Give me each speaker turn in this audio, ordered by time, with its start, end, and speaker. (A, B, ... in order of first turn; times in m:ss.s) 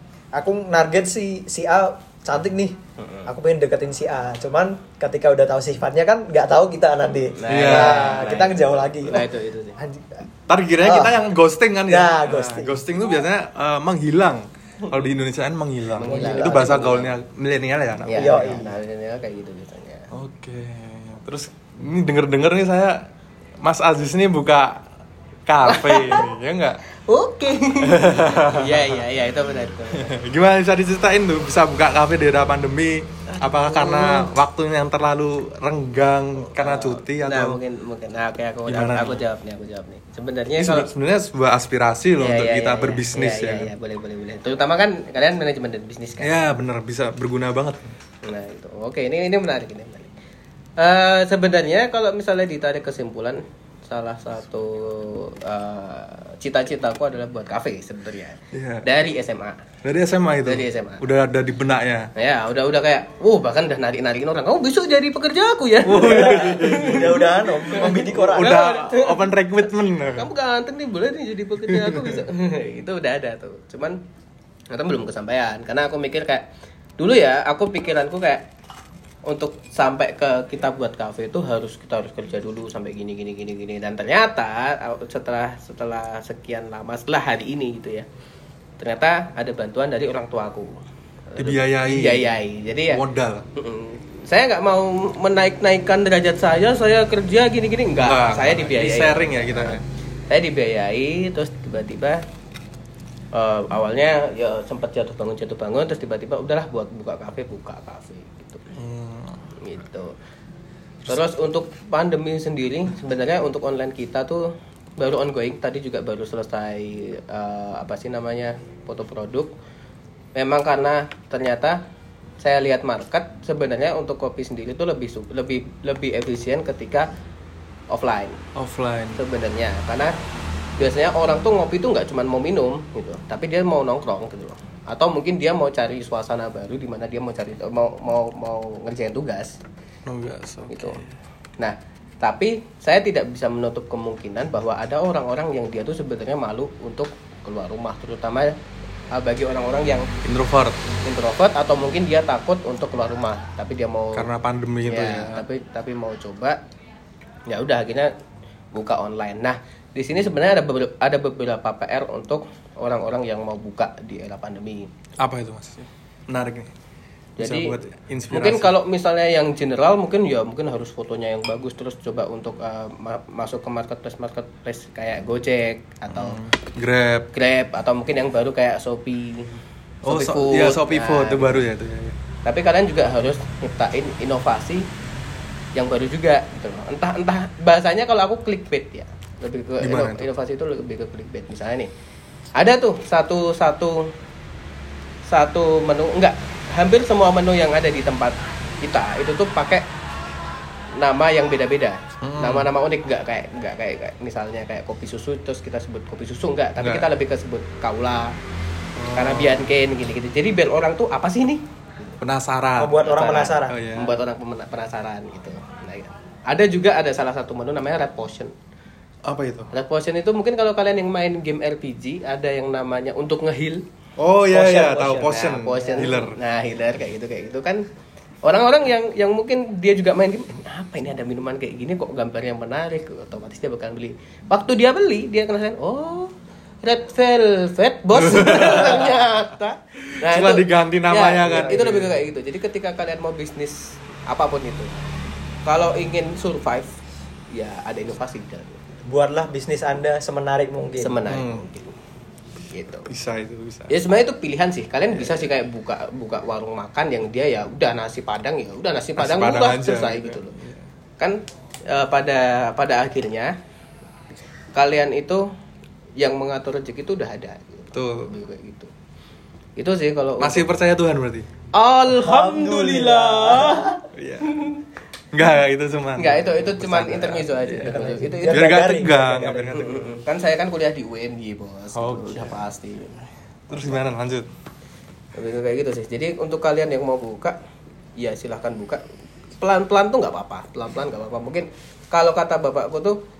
0:00.3-0:10.3 A
0:03.0-0:03.3 B
0:07.4-0:09.8 B
0:07.5-0:08.1 C
0:10.5-0:18.6 C
0:10.8-0:11.2 A
0:11.9-0:12.8 A
0:15.9-0:17.1 B
0:16.0-0:16.9 A
0:18.1-0:20.1 B
0:18.1-0:18.8 A
0:20.1-0:23.1 C
0:23.6-0:24.8 C
0:25.5-0:26.8 C
0:25.7-0:26.3 B
0:26.9-0:30.1 B
0:27.8-0:29.0 C
0:29.9-0:37.6 C
0:33.3-0:34.3 B
0:36.4-0:40.9 B
0:38.7-0:39.2 C
0:40.6-0:43.7 C
0:42.2-0:46.4 B
0:46.2-0:47.9 C
0:48.2-0:50.1 B
0:50.8-0:59.6 B
0:58.5-0:58.9 C
0:59.8-1:02.1 C
1:00.4-1:01.0 B
1:02.1-1:09.4 B
1:05.8-1:10.3 C
1:06.0-1:08.6 A
1:10.1-1:14.0 B
1:11.6-1:12.2 C
1:14.7-1:16.5 B
1:17.0-1:18.4 B
1:19.2-1:28.1 B
1:28.8-1:33.0 B
1:31.4-1:32.4 C
1:32.9-1:33.4 C
1:33.6-1:42.2 B
1:38.0-1:39.8 C
1:43.3-1:48.7 B
1:48.7-1:49.5 C
1:49.6-1:50.1 B
1:51.0-1:59.5 B
2:00.4-2:01.8 B
2:02.4-2:07.1 B
2:07.9-2:08.4 B
2:08.5-2:09.2 C
2:09.2-2:10.1 B
2:10.8-2:19.6 B
2:20.0-2:21.1 C
2:20.7-2:21.0 B
2:21.6-2:28.6 B
2:29.1-2:30.1 B
2:30.2-2:30.8 C
2:31.0-2:34.3 B
2:34.1-2:35.4 C
2:34.9-2:36.6 B
2:37.5-2:38.1 B
2:38.7-2:44.9 B
2:45.2-2:46.7 C
2:47.4-2:47.8 B
2:47.4-2:48.7 C
2:48.3-2:56.4 B
2:56.1-2:57.3 C
2:57.3-3:01.6 B
3:00.0-3:02.2 C
3:02.4-3:04.9 B
3:05.7-3:11.9 B
3:09.8-3:10.3 C
3:12.5-3:14.1 B
3:15.3-3:19.9 B
3:21.0-3:28.4 B
3:22.2-3:22.7 C
3:26.8-3:27.1 C
3:29.0-3:29.7 C
3:29.1-3:32.2 B
3:32.2-3:33.0 C
3:32.8-3:33.8 A
3:33.0-3:38.5 B
3:33.7-3:34.1 C
3:39.2-3:39.7 C
3:39.7-3:43.8 B
3:44.2-3:46.4 C
3:44.5-3:46.1 A
3:45.2-3:47.9 B
3:48.4-4:04.9 B
3:58.2-3:59.2 C
4:00.1-4:02.2 C
4:01.4-4:01.8 A
4:05.6-4:08.9 B
4:09.0-4:11.2 A
4:11.0-4:12.0 B
4:11.3-4:11.7 C
4:12.6-4:13.1 B
4:13.1-4:13.9 C
4:13.9-4:20.5 B
4:19.2-4:20.8 C
4:21.2-4:23.5 B
4:24.7-4:25.4 B
4:26.2-4:28.9 B
4:27.9-4:28.3 C
4:29.8-4:30.6 B
4:30.4-4:31.5 C
4:31.7-4:34.8 B
4:32.1-4:34.0 A
4:34.1-4:34.6 C
4:35.3-4:40.2 C
4:36.2-4:38.7 B
4:37.9-4:39.9 A
4:39.7-4:43.2 B
4:41.9-4:42.6 C
4:43.7-4:44.5 C
4:43.7-4:44.0 B
4:45.4-4:47.6 B
4:48.2-4:49.0 B
4:49.6-4:53.2 B